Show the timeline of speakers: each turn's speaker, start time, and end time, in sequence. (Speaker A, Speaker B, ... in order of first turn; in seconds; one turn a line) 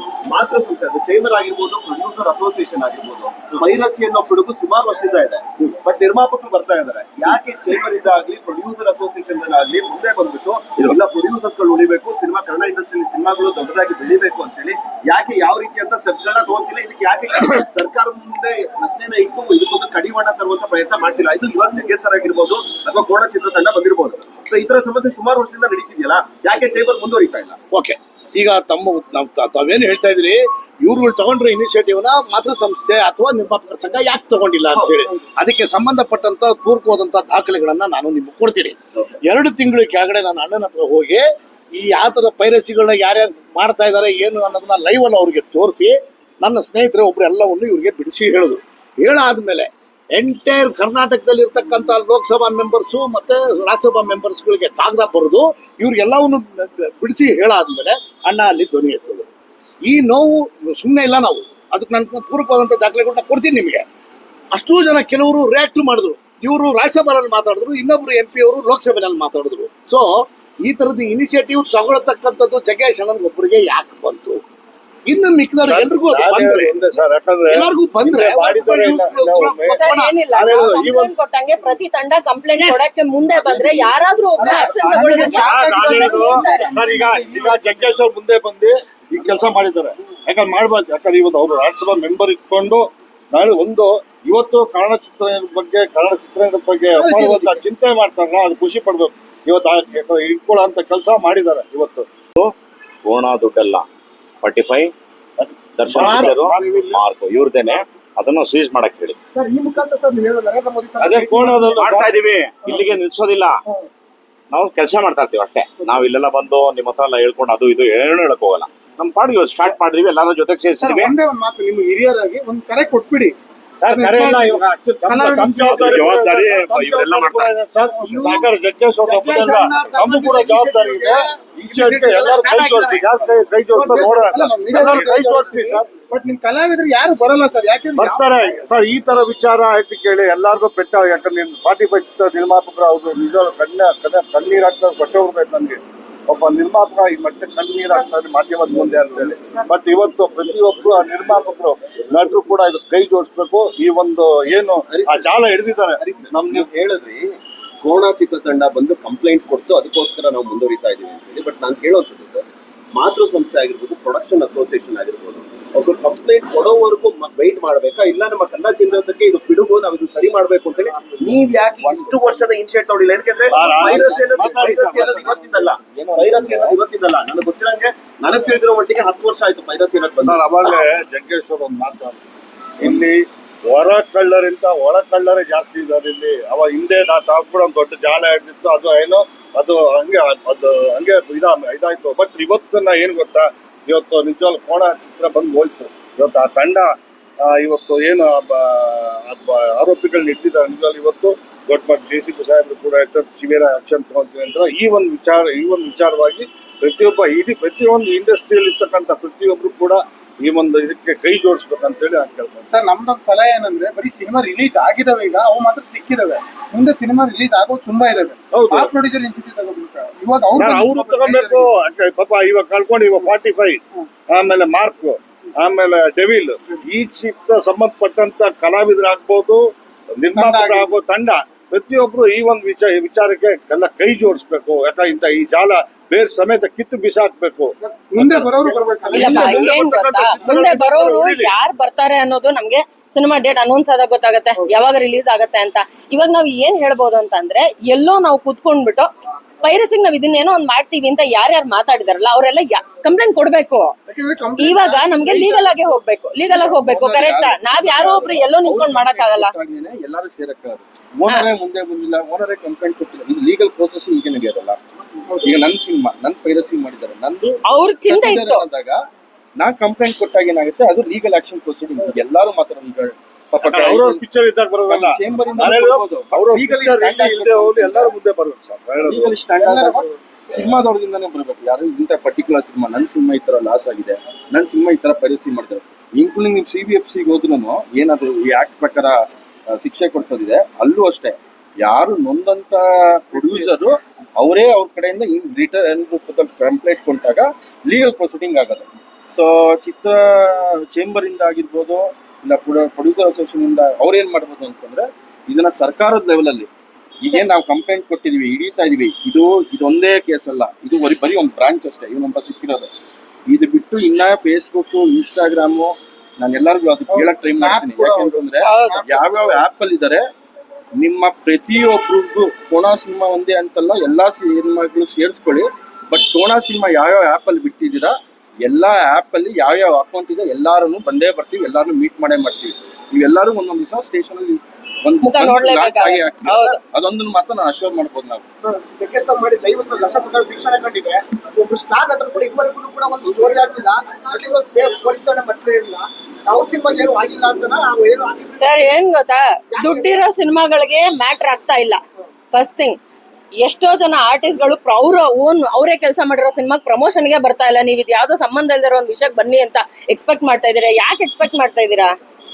Speaker A: 0.2-27.6
Speaker B: 27.7-59.3
Speaker A: 34.7-35.0
Speaker B: 59.8-63.9
Speaker B: 64.5-74.4
Speaker B: 75.0-76.8
Speaker C: 75.6-81.1
Speaker B: 77.5-80.2
Speaker D: 79.7-86.8
Speaker E: 82.6-82.9
Speaker E: 84.4-88.0
Speaker C: 84.5-102.1
Speaker E: 96.9-97.6
Speaker F: 103.0-103.9
Speaker F: 104.4-104.9
Speaker C: 105.4-106.8
Speaker F: 105.7-109.2
Speaker E: 105.9-107.0
Speaker G: 109.3-111.9
Speaker C: 111.0-112.1
Speaker F: 111.8-113.6
Speaker F: 114.5-121.1
Speaker E: 120.8-126.5
Speaker B: 124.0-124.5
Speaker C: 124.0-135.9
Speaker B: 125.1-125.7
Speaker F: 125.1-127.5
Speaker E: 127.9-138.6
Speaker C: 137.9-156.7
Speaker A: 154.9-162.4
Speaker A: 162.9-180.4
Speaker H: 171.8-172.4
Speaker C: 173.5-175.3
Speaker H: 173.6-176.8
Speaker C: 180.2-182.2
Speaker C: 182.8-212.7
Speaker E: 212.7-221.7
Speaker C: 218.5-218.9
Speaker C: 220.5-241.5
Speaker E: 230.3-230.9
Speaker E: 237.8-239.7
Speaker D: 239.1-254.0
Speaker E: 254.1-255.7
Speaker D: 254.6-259.5
Speaker H: 256.5-264.8
Speaker H: 265.4-269.0
Speaker D: 267.7-268.6
Speaker H: 269.6-274.2
Speaker C: 273.6-279.3
Speaker H: 274.9-278.1
Speaker H: 279.0-306.7
Speaker E: 279.6-280.1
Speaker H: 307.2-312.9
Speaker H: 313.5-320.2
Speaker E: 317.1-319.6
Speaker H: 321.0-338.4
Speaker D: 335.2-336.8
Speaker G: 338.6-348.9
Speaker D: 348.6-352.0
Speaker G: 349.7-350.2
Speaker D: 352.5-353.0
Speaker D: 353.6-362.1